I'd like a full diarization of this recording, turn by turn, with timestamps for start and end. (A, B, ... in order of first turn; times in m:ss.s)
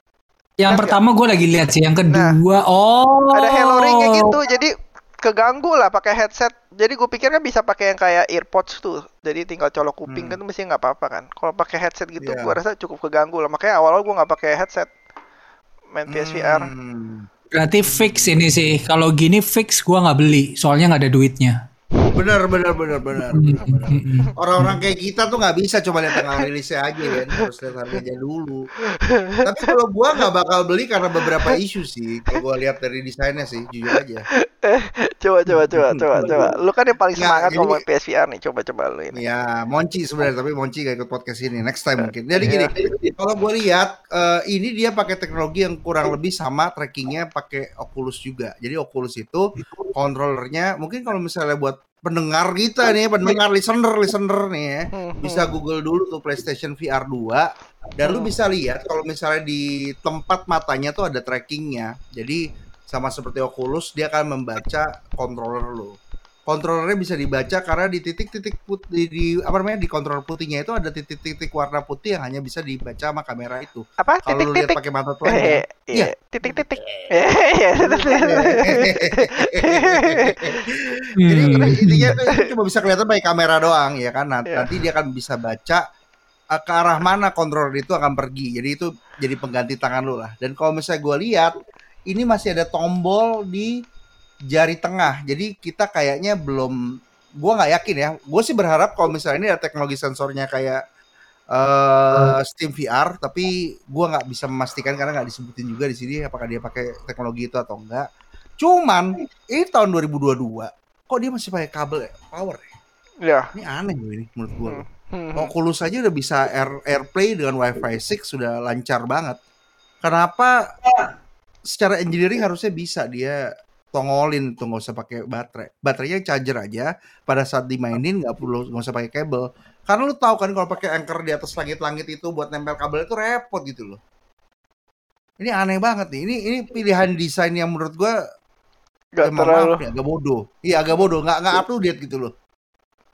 0:00.6-0:04.4 A
0:00.7-0:01.0 B
0:02.1-0:02.4 B
0:03.3-0:14.9 B
0:10.1-0:10.4 C
0:12.2-0:12.6 C
0:15.9-0:16.7 B
0:16.1-0:17.3 C
0:17.5-0:21.6 A
0:17.8-0:18.3 C
0:22.1-0:28.7 C
0:23.3-0:24.8 A
0:26.1-0:26.5 B
0:27.1-0:27.5 B
0:28.8-0:29.7 B
0:29.4-0:34.2 C
0:31.2-0:31.6 B
0:34.3-0:39.2 B
0:35.5-0:36.5 C
0:37.2-0:37.8 C
0:39.1-1:17.1 C
0:42.0-0:42.7 B
0:54.9-0:55.5 B
0:58.0-0:58.3 B
1:14.0-1:22.5 B
1:17.8-1:25.8 C
1:21.2-1:22.1 A
1:26.5-1:31.5 C
1:32.1-1:33.7 C
1:34.5-1:36.8 C
1:37.4-1:40.8 C
1:41.5-1:48.1 C
1:48.6-1:52.6 C
1:53.2-1:53.5 B
1:53.5-1:54.8 C
1:54.7-1:55.5 B
1:55.4-1:59.4 C
2:00.0-2:00.6 C
2:01.7-2:03.4 C
2:03.9-2:14.0 C
2:15.4-2:18.2 C
2:19.1-2:19.8 B
2:19.2-2:22.3 C